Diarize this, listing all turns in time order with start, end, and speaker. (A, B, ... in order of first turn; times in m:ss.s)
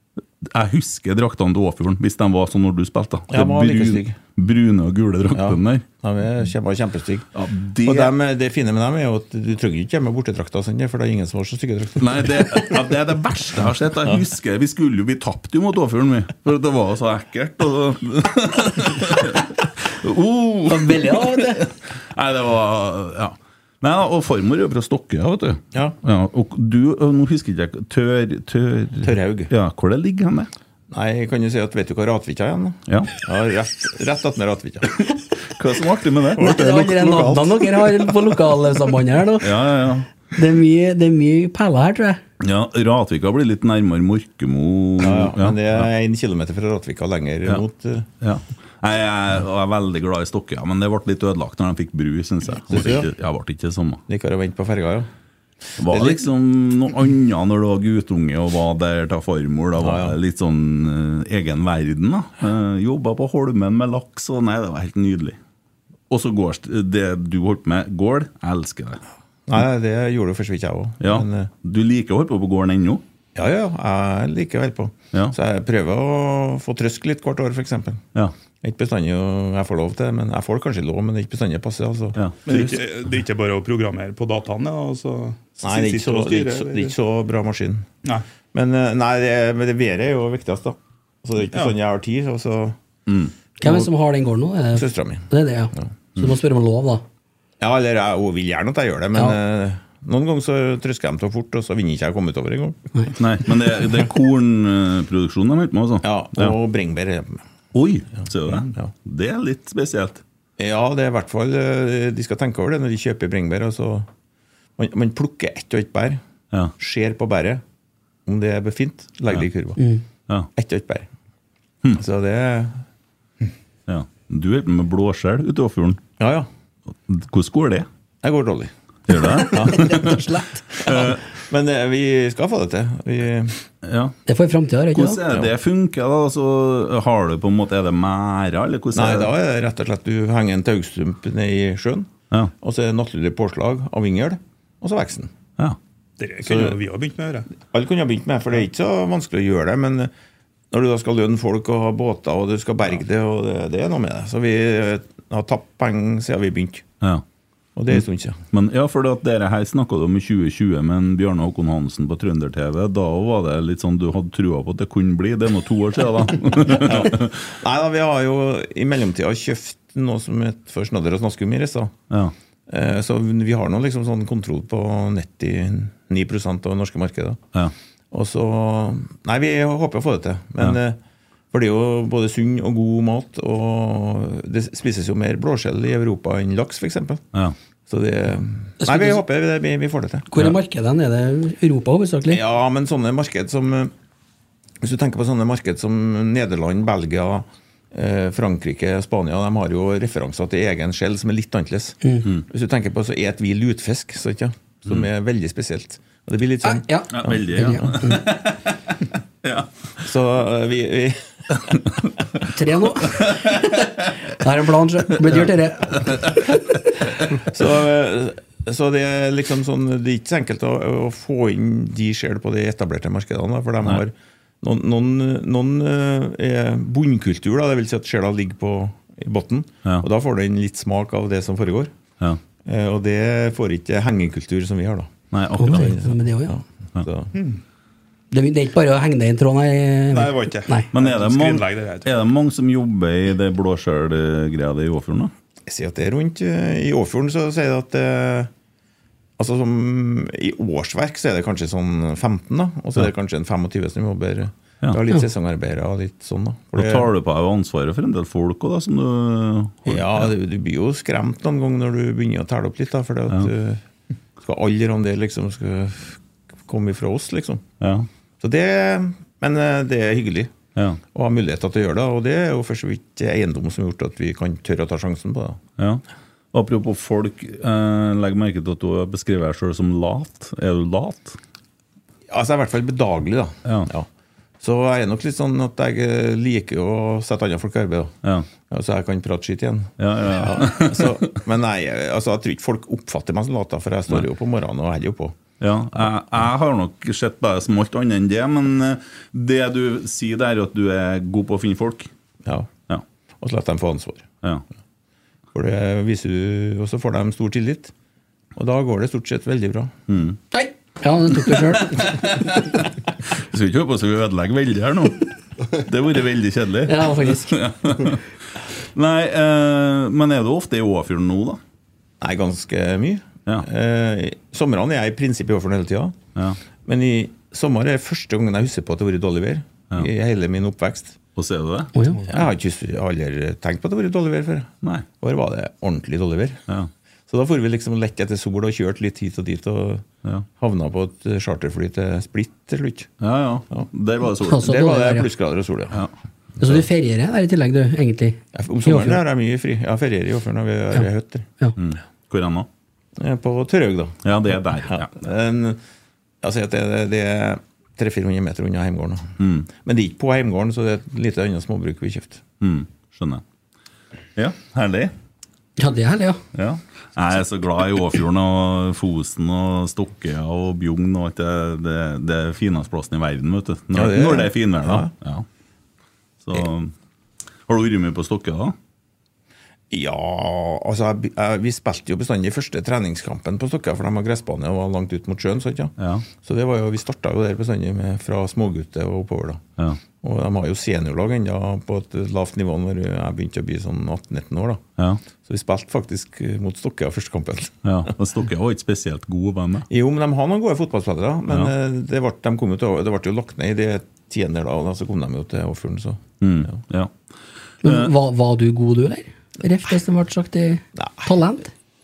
0:00.4-0:05.8 A
0:03.3-0:04.2 B
0:05.3-0:07.3 B
0:07.3-0:08.1 A
0:07.8-0:12.7 B
0:12.0-0:30.5 A
0:20.7-0:21.7 C
0:29.0-0:29.5 B
0:30.9-0:35.1 B
0:32.9-0:33.1 A
0:35.4-0:36.6 A
0:36.4-0:39.6 C
0:36.4-0:37.6 D
0:36.5-0:37.4 B
0:39.4-0:40.1 A
0:40.3-0:42.2 C
0:42.4-0:45.8 A
0:45.0-0:48.1 B
0:48.2-0:54.0 A
0:52.7-0:53.1 B
0:54.1-0:55.1 B
0:55.8-0:56.2 B
0:55.8-1:05.4 A
0:59.8-1:00.2 B
1:06.1-1:09.0 A
1:09.5-1:11.5 B
1:11.0-1:13.0 A
1:13.3-1:18.0 B
1:18.6-1:22.6 B
1:22.2-1:22.8 A
1:22.5-1:26.9 D
1:25.6-1:27.9 B
1:28.5-1:32.8 B
1:33.1-1:33.3 A
1:33.6-1:37.0 C
1:33.6-1:33.9 B
1:34.7-1:35.9 B
1:37.6-1:42.9 B
1:43.2-1:46.5 A
1:46.0-1:47.4 B
1:47.7-1:50.2 A
1:48.2-1:48.9 B
1:50.6-1:54.1 B
1:54.8-1:56.2 B
1:56.8-1:57.6 B
1:58.2-2:00.0 B
1:59.8-2:00.0 C
2:00.5-2:01.1 B
2:01.9-2:02.8 B
2:03.9-2:06.0 A
2:06.2-2:06.5 B
2:07.1-2:07.9 A
2:08.2-2:08.7 B
2:09.1-2:10.3 A
2:09.3-2:10.1 B
2:09.6-2:11.1 C
2:10.8-2:13.6 B
2:10.8-2:11.2 A
2:13.8-2:14.2 A
2:14.3-2:15.2 C
2:14.9-2:19.3 A
2:18.9-2:25.3 B
2:26.2-2:27.5 D
2:26.4-2:26.8 B
2:27.6-2:30.1 B
2:30.7-2:36.8 B
2:37.8-2:38.4 B
2:38.5-2:47.4 A
2:46.7-2:51.9 B
2:52.7-2:57.4 B
2:58.1-3:01.0 B
3:01.5-3:07.2 B
3:07.9-3:10.3 B
3:08.8-3:09.2 C
3:10.3-3:12.4 C
3:12.3-3:13.9 B
3:14.8-3:28.0 B
3:26.6-3:28.2 C
3:27.1-3:29.7 A
3:30.0-3:31.9 B
3:32.5-3:36.8 C
3:33.0-3:34.2 A
3:35.1-3:37.4 A
3:37.4-3:51.9 B
3:52.6-3:57.4 B
3:55.3-3:56.0 A
3:55.6-3:56.5 C
3:57.3-3:57.6 D
3:58.3-4:00.9 C
4:00.1-4:02.1 D
4:00.9-4:05.3 A
4:05.7-4:08.5 B
4:09.4-4:17.1 B
4:16.7-4:20.3 A
4:19.8-4:23.8 B
4:24.4-4:27.6 B
4:27.8-4:28.1 A
4:28.4-4:30.5 B
4:30.7-4:31.0 A
4:31.1-4:35.6 B
4:36.5-4:41.4 A
4:42.3-4:44.1 B
4:44.6-4:48.1 B
4:48.7-4:55.4 B
4:50.0-4:51.2 A
4:55.6-5:02.1 A
5:03.4-5:04.3 B
5:05.5-5:07.9 B
5:08.6-5:09.9 B
5:10.1-5:10.4 A
5:10.5-5:12.2 C
5:11.4-5:21.6 A
5:16.9-5:17.6 C
5:22.2-5:26.2 B
5:26.8-5:31.2 B
5:31.4-5:32.0 A
5:32.0-5:32.2 C
5:32.3-5:36.6 B
5:37.3-5:40.0 B
5:40.6-5:43.1 B
5:43.2-5:44.7 A
5:44.4-5:45.3 C
5:44.6-5:46.0 B
5:46.6-5:49.2 C
5:48.5-5:51.5 B
5:51.8-5:52.7 A
5:53.2-5:54.2 B
5:54.2-5:55.1 A
5:54.8-5:55.8 B
5:56.4-6:02.4 B
5:59.4-5:59.7 A
6:02.6-6:03.4 A
6:04.4-6:05.1 A
6:05.8-6:06.4 C
6:06.5-6:15.4 A
6:13.9-6:15.1 B
6:16.4-6:16.9 A
6:17.7-6:18.8 A
6:19.9-6:29.6 B
6:26.0-6:26.2 A
6:30.2-6:34.8 B
6:35.4-6:38.1 B
6:37.8-6:39.9 A
6:39.9-6:46.8 B
6:46.4-6:47.1 A
6:47.8-6:48.1 A
6:47.8-6:51.7 C
6:50.9-6:51.3 B